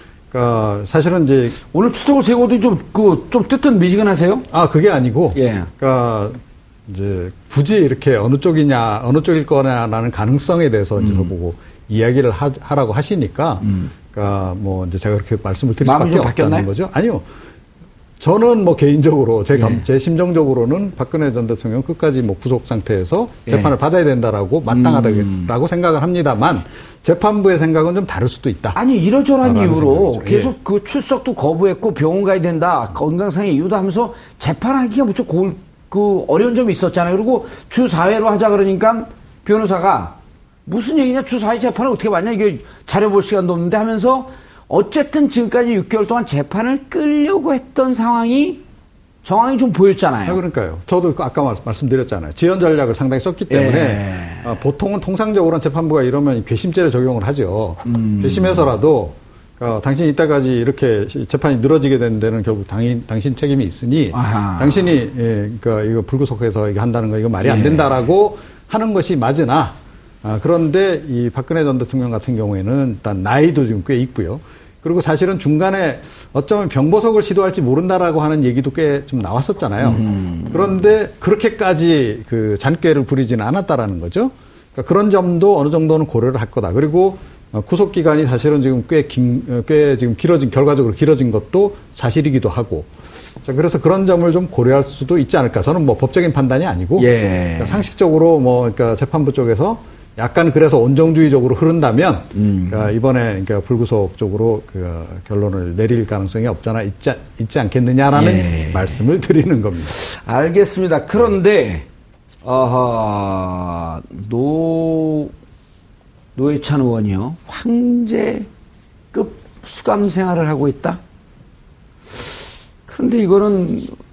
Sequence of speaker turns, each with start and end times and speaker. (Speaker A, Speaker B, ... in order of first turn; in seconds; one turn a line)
Speaker A: 0.3-1.6
Speaker B: 1.7-4.5
Speaker A: 4.5-17.3
Speaker B: 5.3-5.7
Speaker B: 11.0-11.3
Speaker B: 13.6-13.9
Speaker B: 15.8-16.7
Speaker A: 18.2-28.8
Speaker B: 19.5-19.8
Speaker B: 23.5-23.7
Speaker B: 24.7-25.5
Speaker B: 28.8-48.6
Speaker A: 29.4-30.6
Speaker B: 49.2-50.4
Speaker A: 50.3-92.9
Speaker B: 53.5-54.5
Speaker B: 57.9-58.7
Speaker B: 64.1-64.8
Speaker B: 67.4-67.9
Speaker B: 79.8-80.7
Speaker A: 93.4-110.0
Speaker B: 97.0-97.8
Speaker B: 102.3-102.9
Speaker B: 108.1-109.0
Speaker B: 109.9-111.9
Speaker B: 112.4-115.3
Speaker B: 116.3-118.5
Speaker B: 119.1-121.0
Speaker B: 122.9-124.0